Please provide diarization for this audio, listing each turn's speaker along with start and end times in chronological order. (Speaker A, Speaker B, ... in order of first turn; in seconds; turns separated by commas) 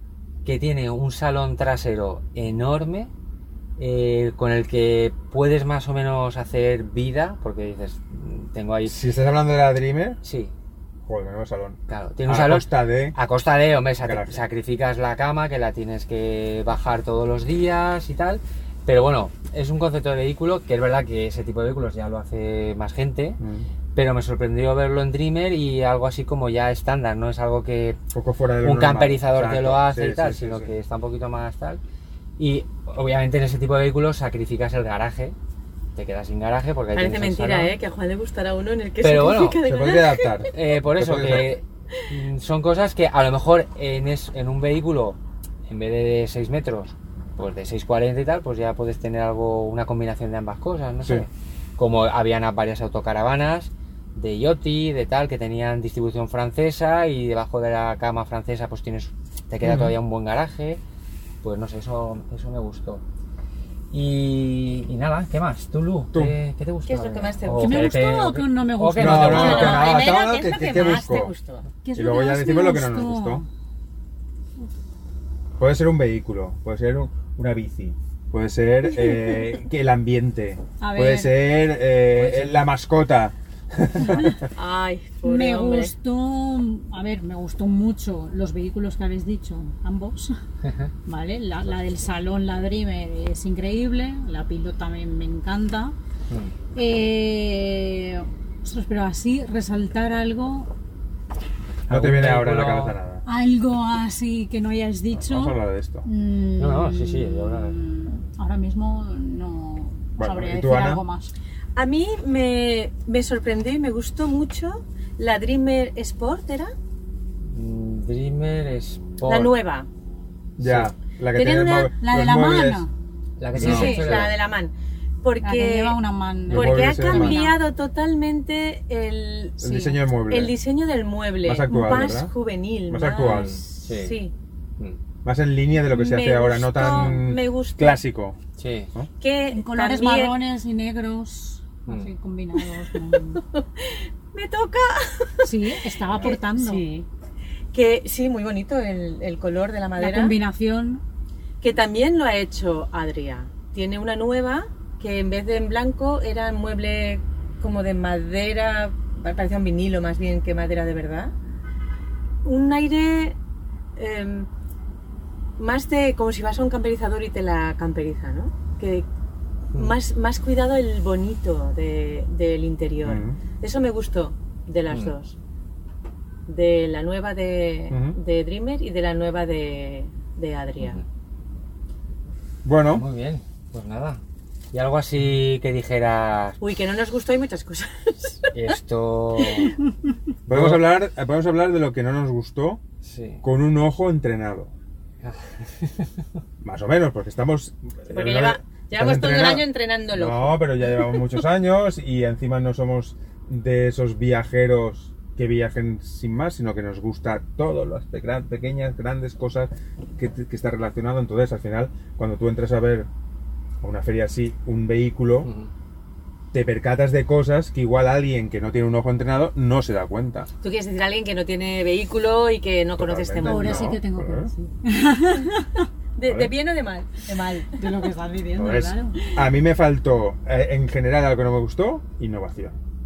Speaker A: 0.5-3.1, Speaker A: 3.8-9.0, Speaker B: 8.8-10.2, Speaker A: 10.2-10.5, Speaker B: 11.1-13.2, Speaker A: 11.9-23.4, Speaker B: 14.0-14.4, Speaker B: 23.4-23.7, Speaker A: 23.9-28.0, Speaker B: 28.1-30.7, Speaker A: 28.6-31.8, Speaker A: 32.4-35.4, Speaker A: 36.0-37.7, Speaker C: 36.9-40.5, Speaker A: 39.0-39.6, Speaker B: 39.6-41.6, Speaker A: 40.5-60.8, Speaker B: 59.6-60.0, Speaker A: 61.4-63.0, Speaker A: 63.9-69.9, Speaker C: 66.9-68.0, Speaker D: 67.6-71.0, Speaker B: 69.0-71.3, Speaker C: 69.2-71.7, Speaker D: 71.8-73.5, Speaker B: 72.0-73.5, Speaker B: 75.6-84.5, Speaker C: 79.1-79.4, Speaker D: 80.8-81.3, Speaker A: 82.1-82.7, Speaker D: 84.1-84.3, Speaker C: 84.5-85.9, Speaker D: 85.2-90.4, Speaker A: 90.6-90.9, Speaker D: 91.1-96.0, Speaker A: 96.3-96.5, Speaker D: 96.7-100.7, Speaker A: 101.9-103.0, Speaker B: 101.9-103.2, Speaker D: 103.3-111.3, Speaker B: 105.2-106.0, Speaker A: 106.6-107.8, Speaker B: 110.2-111.0, Speaker C: 111.8-116.7, Speaker A: 117.5-119.5, Speaker C: 119.2-119.9, Speaker B: 120.6-122.9, Speaker A: 120.6-120.9, Speaker C: 121.3-121.9, Speaker D: 122.0-122.9, Speaker A: 123.4-124.4, Speaker B: 123.5-124.3, Speaker C: 123.6-134.3, Speaker D: 125.4-127.6, Speaker B: 126.5-127.4, Speaker B: 129.6-130.6, Speaker B: 131.4-132.3, Speaker D: 131.7-132.0, Speaker B: 132.9-133.6, Speaker A: 133.2-134.2, Speaker B: 135.2-138.4, Speaker C: 135.9-138.0, Speaker A: 138.6-138.9, Speaker C: 139.2-140.4, Speaker D: 139.5-143.4, Speaker A: 141.9-142.1, Speaker C: 142.6-147.1, Speaker D: 145.4-146.8, Speaker A: 146.1-146.3, Speaker C: 147.7-150.4, Speaker D: 150.0-151.0, Speaker C: 151.6-161.3, Speaker C: 162.4-163.4, Speaker C: 164.0-164.5, Speaker C: 165.6-169.1, Speaker C: 169.7-175.3, Speaker B: 173.0-173.4, Speaker A: 174.9-175.2, Speaker C: 176.5-181.0, Speaker B: 177.9-178.2, Speaker B: 182.7-183.1, Speaker A: 182.9-186.6, Speaker C: 186.6-188.5, Speaker A: 188.5-189.8, Speaker C: 189.4-189.7, Speaker A: 190.5-190.8, Speaker B: 190.5-192.8, Speaker A: 193.0-193.4, Speaker B: 193.4-194.7, Speaker A: 195.2-196.3, Speaker B: 196.6-213.1, Speaker C: 198.1-201.4, Speaker B: 213.8-215.5, Speaker A: 215.4-215.7, Speaker B: 216.5-220.5, Speaker C: 220.6-224.0, Speaker B: 223.0-224.5, Speaker D: 223.4-225.9, Speaker C: 226.2-227.8, Speaker B: 226.3-226.5, Speaker D: 227.8-229.3, Speaker B: 228.6-232.8